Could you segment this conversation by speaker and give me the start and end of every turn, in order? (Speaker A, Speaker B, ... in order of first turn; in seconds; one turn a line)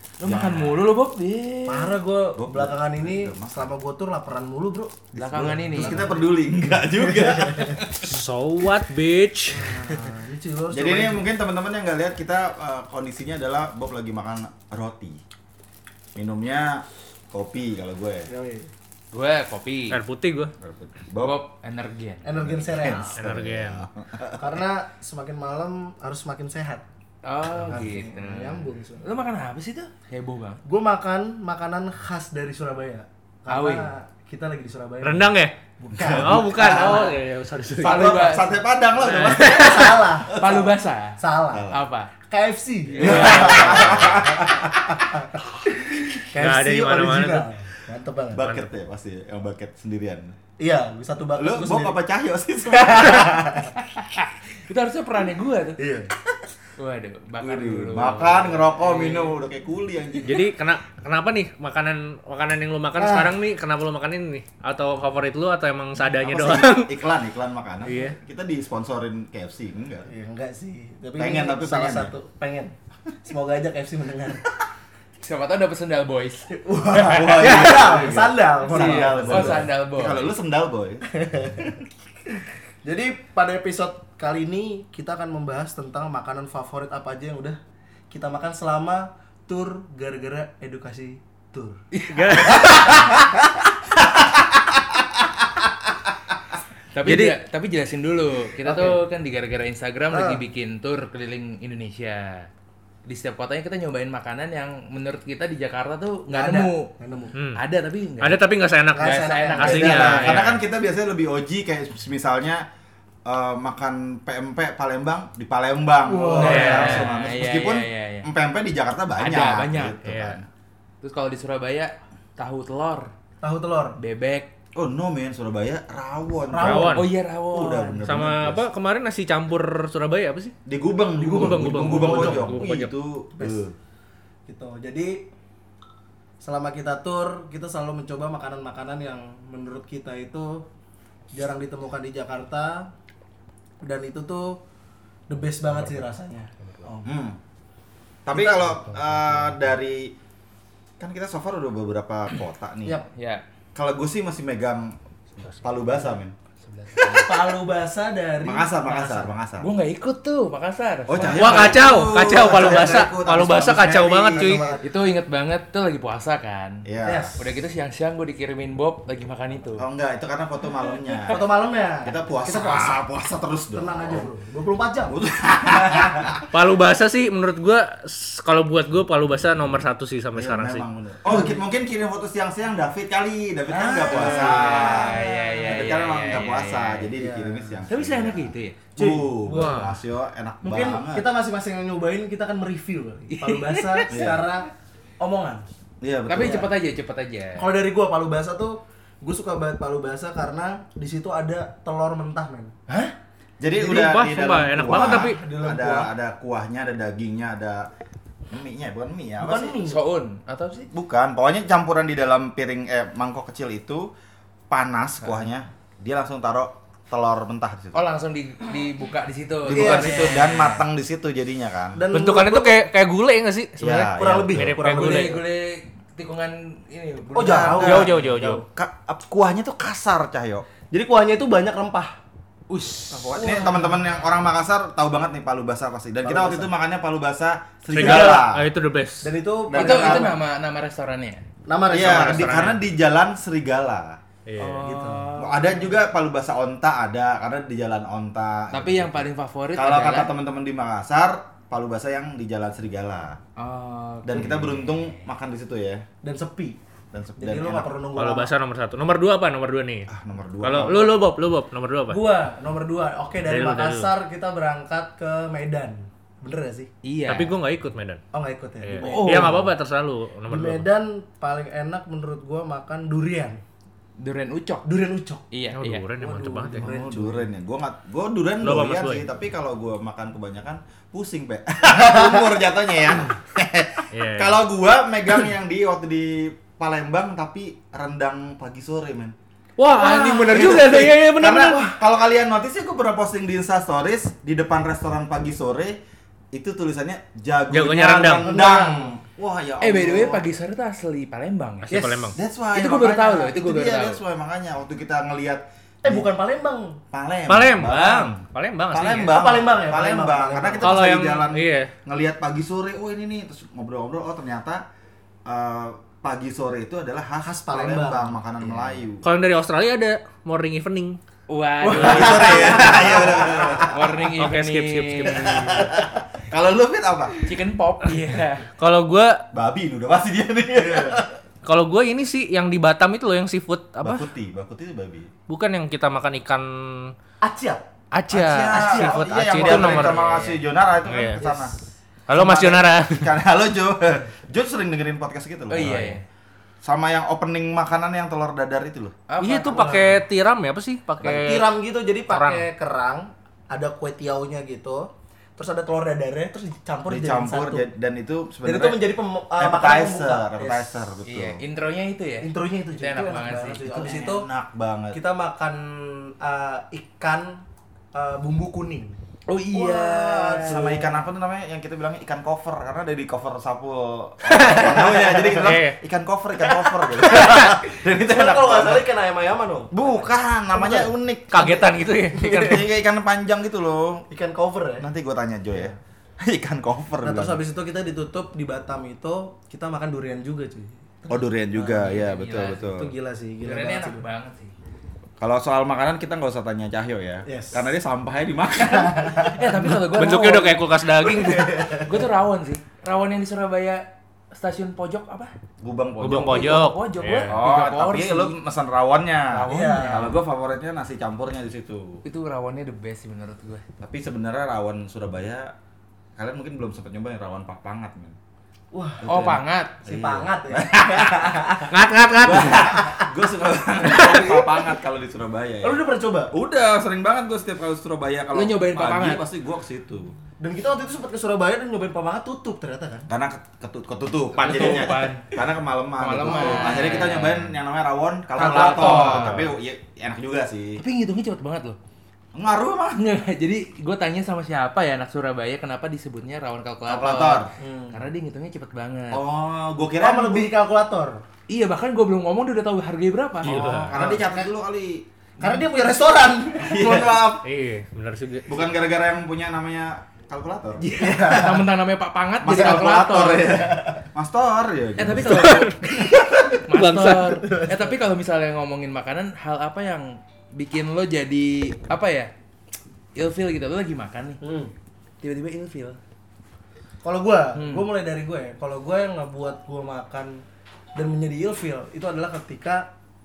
Speaker A: 0.2-2.0
Speaker B: 0.2-0.8
Speaker C: 1.7-6.2
Speaker B: 2.4-3.5
Speaker A: 5.1-6.0
Speaker B: 5.2-8.2
Speaker C: 7.1-7.8
Speaker D: 8.0-9.8
Speaker C: 9.5-11.3
Speaker B: 10.7-15.2
Speaker B: 16.1-18.3
Speaker C: 18.3-18.7
Speaker A: 19.1-20.0
Speaker D: 19.9-20.5
Speaker B: 20.6-21.4
Speaker A: 21.2-22.2
Speaker C: 22.2-23.2
Speaker B: 22.4-24.6
Speaker D: 23.1-23.9
Speaker C: 24.4-26.8
Speaker A: 27.2-30.6
Speaker C: 27.6-29.1
Speaker C: 30.6-37.2
Speaker A: 33.5-33.9
Speaker D: 35.0-38.1
Speaker B: 35.9-36.9
Speaker B: 37.8-39.8
Speaker A: 37.8-38.6
Speaker D: 39.0-40.1
Speaker C: 39.3-41.8
Speaker A: 40.3-42.1
Speaker B: 41.5-41.8
Speaker C: 42.3-48.4
Speaker A: 43.0-44.1
Speaker B: 43.0-45.0
Speaker D: 46.4-47.5
Speaker B: 48.3-50.4
Speaker D: 48.4-48.7
Speaker C: 50.6-52.0
Speaker B: 51.4-53.5
Speaker C: 52.7-53.8
Speaker A: 53.8-55.8
Speaker C: 55.8-56.2
Speaker A: 56.8-59.4
Speaker B: 57.4-60.5
Speaker D: 60.2-67.0
Speaker C: 63.0-63.3
Speaker B: 66.3-70.1
Speaker D: 67.8-68.2
Speaker C: 70.1-74.4
Speaker B: 71.2-72.1
Speaker A: 75.2-76.5
Speaker C: 76.5-79.7
Speaker D: 76.9-78.0
Speaker B: 77.0-81.0
Speaker A: 78.7-80.2
Speaker C: 81.1-81.8
Speaker C: 82.8-87.6
Speaker C: 88.1-91.8
Speaker A: 91.9-92.8
Speaker D: 92.1-93.2
Speaker C: 92.4-93.2
Speaker A: 96.9-102.5
Speaker D: 97.0-97.4
Speaker C: 98.7-99.0
Speaker C: 100.1-100.4
Speaker A: 103.1-106.9
Speaker C: 106.3-107.4
Speaker D: 107.3-107.6
Speaker A: 107.6-108.4
Speaker D: 108.2-110.6
Speaker C: 109.0-110.4
Speaker A: 109.0-110.4
Speaker B: 109.6-112.7
Speaker B: 113.2-120.5
Speaker C: 116.0-117.0
Speaker A: 116.4-118.3
Speaker D: 116.4-117.1
Speaker A: 119.2-120.0
Speaker D: 120.0-120.4
Speaker A: 121.0-123.1
Speaker C: 123.4-124.0
Speaker A: 124.0-124.5
Speaker B: 124.8-128.7
Speaker C: 126.5-127.0
Speaker D: 126.6-127.1
Speaker A: 126.9-128.0
Speaker D: 128.0-130.6
Speaker B: 130.7-133.7
Speaker D: 131.2-132.9
Speaker C: 131.2-132.8
Speaker C: 133.4-133.7
Speaker C: 134.5-135.2
Speaker C: 136.4-140.7
Speaker C: 141.3-142.9
Speaker C: 143.8-144.6
Speaker C: 145.3-147.1
Speaker A: 146.6-147.0
Speaker B: 147.0-147.4
Speaker B: 148.2-150.2
Speaker C: 148.5-148.8
Speaker B: 151.0-153.0
Speaker A: 152.9-153.4
Speaker B: 153.8-156.3
Speaker A: 156.6-157.3
Speaker C: 157.1-159.2
Speaker B: 158.4-159.7
Speaker A: 159.6-161.8
Speaker B: 161.1-164.7
Speaker D: 161.3-164.7
Speaker C: 162.6-163.1
Speaker C: 164.3-164.9
Speaker A: 164.8-166.8
Speaker B: 166.8-167.3
Speaker C: 167.0-167.5
Speaker A: 167.4-169.8
Speaker B: 169.8-171.4
Speaker C: 171.3-173.0
Speaker B: 172.0-174.3
Speaker C: 173.7-175.2
Speaker B: 175.1-176.4
Speaker C: 175.7-176.3
Speaker D: 176.5-180.8
Speaker B: 180.4-191.2
Speaker C: 181.3-181.6
Speaker C: 183.7-185.8
Speaker A: 184.1-187.1
Speaker C: 187.1-187.8
Speaker A: 187.9-188.8
Speaker C: 189.0-189.9
Speaker D: 189.5-189.9
Speaker C: 190.6-194.7
Speaker A: 193.3-194.3
Speaker B: 194.1-194.4
Speaker C: 195.2-195.7
Speaker B: 196.0-196.7
Speaker A: 196.3-197.6
Speaker C: 196.4-196.7
Speaker C: 197.6-202.7
Speaker A: 202.9-203.1
Speaker B: 203.6-207.9
Speaker D: 203.8-205.4
Speaker C: 204.8-206.1
Speaker B: 208.5-209.8
Speaker C: 209.4-210.0
Speaker A: 209.8-210.9
Speaker B: 210.9-214.1
Speaker B: 214.7-218.0
Speaker A: 217.9-220.8
Speaker B: 219.6-222.0
Speaker C: 219.7-220.4
Speaker C: 221.9-222.8
Speaker D: 222.1-225.4
Speaker B: 223.8-224.8
Speaker C: 224.2-225.4
Speaker A: 224.9-227.9
Speaker C: 227.3-228.4
Speaker B: 227.3-230.7
Speaker D: 227.8-228.6
Speaker C: 230.9-232.2
Speaker A: 232.7-234.0
Speaker B: 233.1-238.6
Speaker C: 236.2-236.7
Speaker D: 237.9-239.3
Speaker C: 237.9-238.4
Speaker C: 239.2-240.4
Speaker B: 239.7-240.3
Speaker A: 239.7-241.4
Speaker C: 241.7-242.7
Speaker B: 241.9-244.2
Speaker D: 241.9-242.8
Speaker D: 244.5-244.8
Speaker A: 244.6-245.8
Speaker C: 244.8-245.3
Speaker B: 245.4-253.4
Speaker A: 248.7-250.3
Speaker A: 253.6-255.3
Speaker B: 254.2-256.0
Speaker C: 256.2-256.8
Speaker B: 257.1-257.9
Speaker C: 257.4-258.5
Speaker D: 258.1-260.1
Speaker B: 260.1-261.2
Speaker D: 260.6-262.2
Speaker C: 262.1-266.9
Speaker D: 263.5-264.1
Speaker A: 267.0-267.6
Speaker D: 267.3-268.2
Speaker C: 268.3-269.6
Speaker D: 268.8-270.9
Speaker A: 269.0-269.7
Speaker C: 270.5-273.6
Speaker A: 274.2-274.9
Speaker C: 274.9-275.5
Speaker A: 275.5-276.1
Speaker D: 275.8-276.9
Speaker C: 276.2-277.5
Speaker A: 276.7-277.2
Speaker B: 277.0-289.4
Speaker D: 278.6-279.2
Speaker C: 282.1-282.4
Speaker D: 284.1-284.6
Speaker D: 289.8-291.9
Speaker B: 289.9-296.0
Speaker B: 296.5-300.4
Speaker D: 297.7-298.5
Speaker C: 298.4-299.1
Speaker A: 299.8-302.0
Speaker D: 301.9-302.4
Speaker C: 301.9-302.3
Speaker B: 302.3-306.3
Speaker A: 302.7-304.2
Speaker C: 306.0-307.0
Speaker B: 307.1-314.8
Speaker D: 307.5-309.4
Speaker C: 309.0-310.9
Speaker D: 310.8-311.9
Speaker B: 315.5-319.2
Speaker C: 317.4-318.3
Speaker D: 319.2-321.2
Speaker A: 321.5-325.5
Speaker C: 321.8-323.9
Speaker B: 321.9-324.1
Speaker D: 324.4-325.9
Speaker B: 325.4-327.4
Speaker A: 327.4-328.7
Speaker D: 328.8-329.5
Speaker B: 329.5-331.3
Speaker C: 330.9-331.2
Speaker D: 331.6-334.3
Speaker B: 334.0-335.3
Speaker D: 335.5-337.1
Speaker C: 337.4-337.9
Speaker D: 338.1-340.3
Speaker B: 338.3-341.8
Speaker C: 338.7-340.2
Speaker A: 340.0-340.6
Speaker D: 341.1-341.4
Speaker C: 341.4-341.8
Speaker D: 342.3-343.3
Speaker B: 342.3-346.2
Speaker A: 345.7-346.2
Speaker B: 346.8-349.2
Speaker A: 349.3-350.1
Speaker D: 349.4-351.7
Speaker C: 349.7-350.1
Speaker C: 351.2-357.9
Speaker D: 352.3-352.6
Speaker B: 357.1-359.0
Speaker C: 358.6-361.0
Speaker B: 359.6-361.6
Speaker A: 361.3-363.9
Speaker C: 362.4-364.5
Speaker B: 363.8-365.2
Speaker C: 365.1-367.6
Speaker C: 368.1-369.2
Speaker A: 369.5-370.9
Speaker C: 369.7-371.2
Speaker B: 370.2-379.1
Speaker D: 374.4-376.0
Speaker C: 374.7-375.8
Speaker C: 376.8-382.8
Speaker D: 377.3-377.7
Speaker B: 379.9-381.8
Speaker D: 381.5-382.8
Speaker B: 382.4-384.3
Speaker C: 384.3-385.1
Speaker B: 385.0-387.6
Speaker C: 385.7-386.0
Speaker C: 387.2-392.2
Speaker B: 391.3-393.1
Speaker A: 392.1-392.9
Speaker C: 392.8-394.2
Speaker A: 393.6-394.7
Speaker B: 395.4-399.5
Speaker C: 397.5-397.9
Speaker C: 398.8-400.0
Speaker A: 399.4-400.8
Speaker D: 400.1-402.0
Speaker C: 401.2-402.2
Speaker A: 401.9-405.5
Speaker B: 405.8-406.7
Speaker D: 406.2-407.5
Speaker A: 406.2-408.5
Speaker B: 407.5-412.2
Speaker A: 409.5-410.3
Speaker C: 409.7-410.3
Speaker A: 412.2-413.8
Speaker B: 414.0-415.7
Speaker B: 416.4-418.4
Speaker C: 418.9-419.5
Speaker B: 419.2-421.6
Speaker A: 419.2-420.0
Speaker C: 420.0-421.9
Speaker D: 421.9-422.9
Speaker B: 422.4-430.4
Speaker C: 422.5-423.3
Speaker C: 424.0-424.7
Speaker D: 424.1-424.6
Speaker C: 425.8-426.5
Speaker A: 428.5-429.4
Speaker C: 430.6-433.3
Speaker B: 433.3-441.0
Speaker A: 434.6-435.5
Speaker A: 436.2-437.8
Speaker A: 438.6-439.6
Speaker D: 438.9-439.7
Speaker A: 441.0-442.0
Speaker B: 442.6-443.2
Speaker A: 443.2-449.4
Speaker B: 447.1-447.7
Speaker C: 447.8-448.2
Speaker B: 449.3-450.7
Speaker C: 450.2-451.4
Speaker A: 451.7-454.0
Speaker D: 453.6-454.2
Speaker B: 453.6-455.2
Speaker C: 454.1-454.6
Speaker C: 455.6-457.6
Speaker B: 456.8-457.6
Speaker D: 457.6-458.9
Speaker B: 458.7-461.6
Speaker A: 461.0-463.8
Speaker C: 461.1-461.9
Speaker B: 462.6-465.9
Speaker A: 465.2-466.2
Speaker D: 465.4-467.6
Speaker A: 466.7-472.5
Speaker C: 467.6-468.1
Speaker A: 473.4-474.6
Speaker C: 474.6-474.9
Speaker A: 475.4-476.2
Speaker C: 477.2-480.6
Speaker A: 477.8-478.1
Speaker C: 481.1-483.1